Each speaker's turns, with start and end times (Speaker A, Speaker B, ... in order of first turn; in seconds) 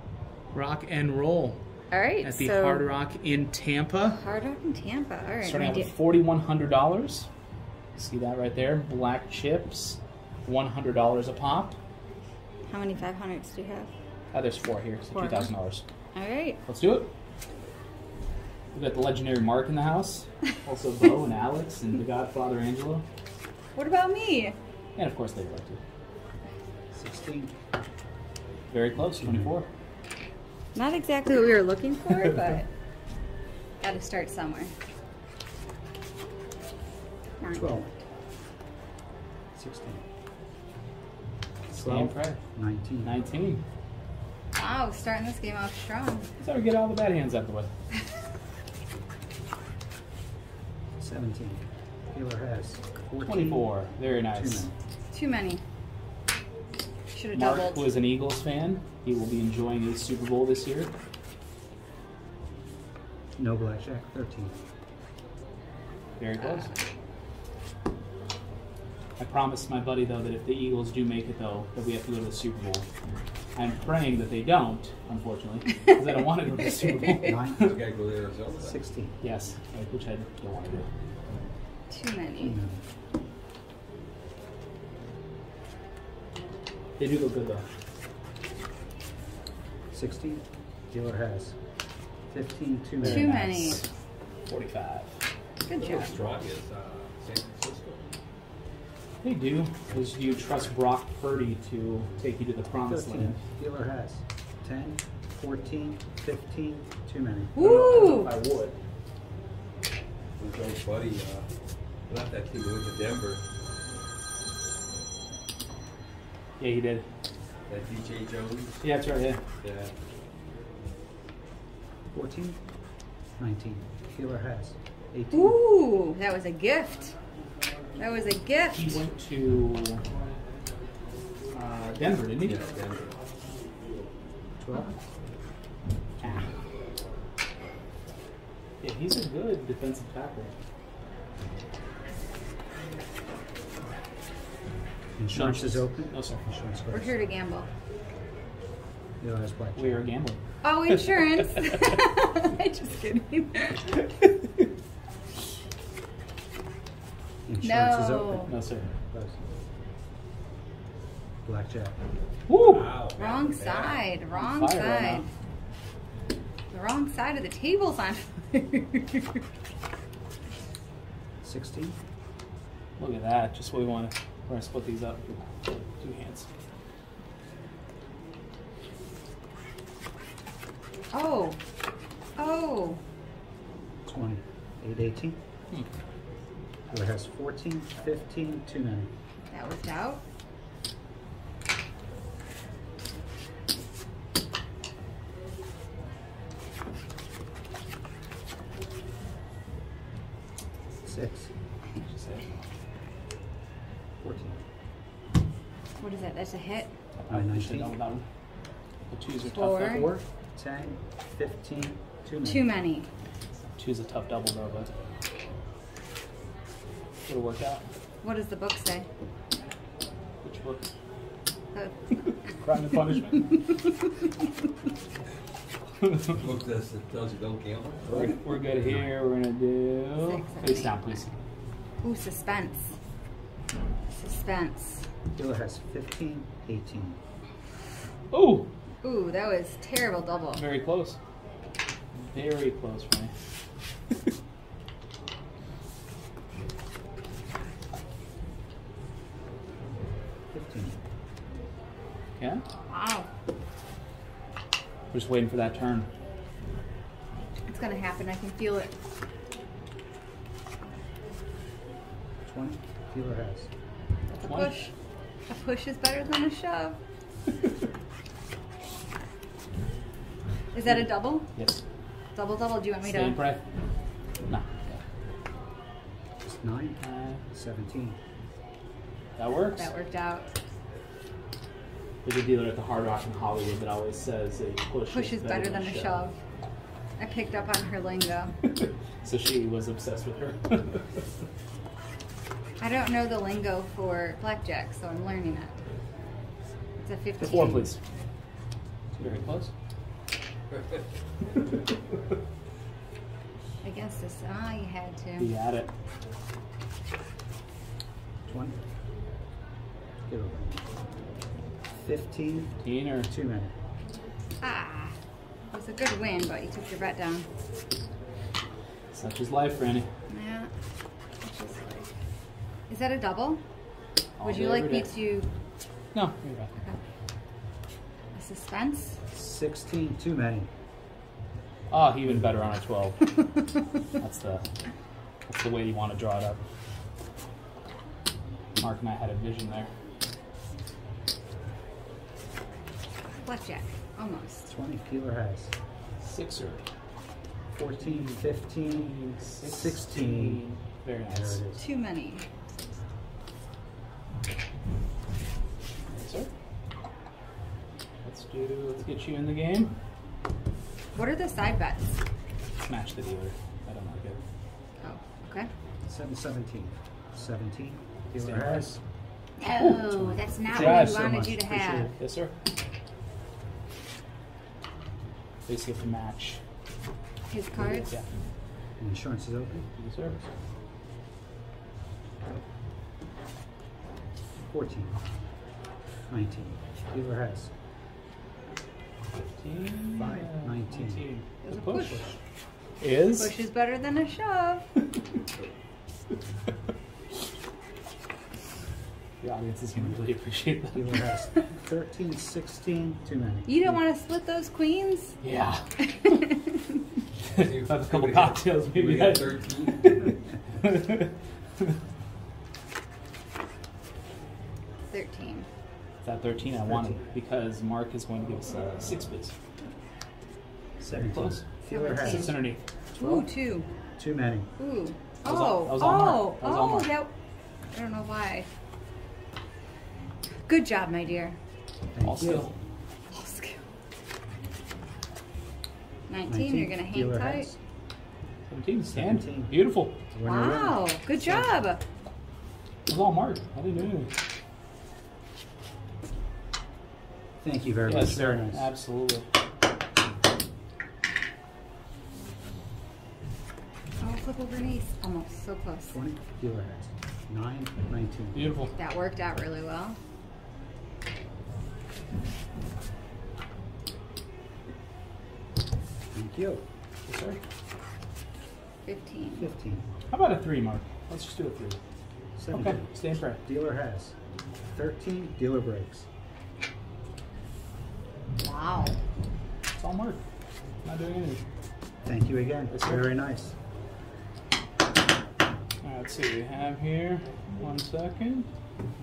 Speaker A: 0.5-1.6, 2.2-4.2, 5.4-7.3, 8.0-11.8, 14.3-15.8, 16.6-17.1, 18.7-23.0, 25.0-25.8, 28.7-29.7, 41.8-42.4, 43.0-43.6, 46.4-47.7, 53.2-54.7, 57.3-60.9, 66.2-66.7, 69.2-72.8, 73.5-77.7, 79.2-80.9, 87.0-87.7, 93.0-93.8, 94.5-95.1, 99.2-103.4, 107.5-108.8, 116.6-117.0, 118.8-119.4, 128.7-130.0, 131.5-132.6, 136.2-136.5, 138.8-140.5, 145.3-146.4, 149.8-150.4, 158.5-158.9, 162.5-162.9, 164.3-165.3, 173.0-176.5, 202.0-202.6, 207.2-208.2, 209.1-210.1, 213.8-214.9, 217.3-217.8, 220.4-220.9, 222.6-223.5, 226.0-226.3, 228.1-231.3, 238.3-238.7, 240.5-241.2, 242.1-243.3, 255.1-256.1, 264.3-264.8, 271.5-271.8, 273.0-273.6, 274.4-275.0, 277.0-277.4, 279.4-279.9, 282.2-286.2, 288.8-291.2, 297.4-298.0, 299.2-299.7, 305.4-305.9, 312.8-313.3, 319.1-320.1, 324.4-325.1, 326.1-326.7, 331.9-333.4, 334.2-334.6, 335.5-336.6, 338.8-339.9, 346.2-346.8, 348.0-351.6, 356.1-356.5, 358.2-359.9, 362.8-364.4, 368.4-368.9, 369.8-371.5, 372.2-372.5, 375.6-376.6, 377.8-378.3, 380.0-380.3, 389.5-392.3, 393.0-393.5, 399.4-401.1, 405.4-406.3, 407.5-411.9, 416.2-419.5, 421.1-421.6, 422.2-422.8, 425.4-427.1, 432.2-432.7, 438.7-440.1, 443.1-444.3, 448.1-449.4, 458.5-458.9, 467.3-467.6, 470.3-472.0, 472.7-473.6, 480.0-480.4, 481.0-481.6, 482.9-483.3, 486.0-488.7
Speaker B: 1.9-2.8, 4.1-5.9, 12.7-13.9, 15.1-15.5, 16.1-16.6, 23.8-24.6, 30.7-32.7, 33.8-34.7, 37.4-37.9, 44.5-46.3, 55.1-55.6, 57.1-57.9, 66.4-66.8, 81.9-82.6, 93.0-93.8, 95.6-96.1, 107.5-108.3, 125.3-127.1, 128.0-129.0, 146.9-147.7, 150.6-154.0, 157.6-158.5, 163.2-165.2, 166.7-169.4, 181.1-181.6, 182.4-183.0, 189.5-190.2, 206.0-206.9, 209.4-210.1, 212.4-213.1, 218.2-219.1, 221.7-222.5, 223.5-224.0, 230.2-231.2, 232.0-232.9, 234.1-235.1, 239.0-240.6, 252.9-253.3, 257.7-258.9, 264.4-264.9, 265.5-267.0, 270.7-271.5, 272.3-273.4, 279.7-280.5, 285.1-286.4, 287.2-288.5, 292.8-295.8, 297.0-297.9, 303.8-305.5, 314.6-315.1, 315.7-317.5, 320.3-320.7, 321.4-322.1, 322.9-323.6, 324.4-325.5, 328.3-329.2, 343.4-344.7, 351.8-352.4, 361.1-362.2, 365.0-365.7, 369.6-372.1, 377.5-378.1, 391.6-392.3, 393.3-394.9, 403.7-405.4, 406.0-406.8, 415.1-415.7, 421.9-422.5, 423.1-423.9, 424.8-427.3, 427.9-428.7, 430.6-431.6, 433.3-433.8, 436.3-437.7, 440.4-442.0, 454.2-456.1, 458.9-460.2, 469.0-469.7, 478.6-479.2
Speaker C: 26.9-27.5, 29.0-29.5, 37.5-37.9, 39.5-40.0, 41.7-43.1, 51.0-54.7, 63.4-64.5, 77.2-77.8, 78.6-79.1, 82.4-82.8, 89.9-91.5, 92.3-93.8, 102.8-107.6, 122.1-122.6, 123.4-125.6, 134.6-134.9, 145.2-147.1, 149.2-150.0, 157.4-159.4, 161.4-161.9, 171.4-171.9, 184.1-185.4, 186.9-189.1, 201.0-201.5, 204.2-204.6, 207.3-207.9, 209.7-212.7, 228.1-229.1, 235.3-237.2, 250.5-250.9, 262.4-263.7, 276.4-277.0, 277.5-278.2, 299.1-299.5, 308.5-308.8, 310.3-310.7, 312.0-312.7, 313.3-313.7, 329.3-330.7, 344.7-345.7, 347.7-350.6, 351.3-351.8, 366.1-369.0, 370.2-372.1, 379.0-379.9, 384.6-385.2, 386.3-387.7, 390.2-391.3, 400.9-404.0, 416.9-417.2, 421.0-422.5, 423.2-423.5, 424.2-424.7, 432.1-432.7, 436.5-437.8, 439.1-439.7, 440.3-441.1, 447.6-448.9, 456.1-458.7, 466.3-466.8, 469.6-470.0, 472.6-474.3, 474.9-476.2, 482.2-483.7
Speaker D: 77.6-78.8, 95.8-98.1, 110.4-111.5, 112.1-113.4, 117.7-118.9, 119.6-119.9, 132.4-133.2, 162.5-164.1, 226.3-228.2, 407.5-410.2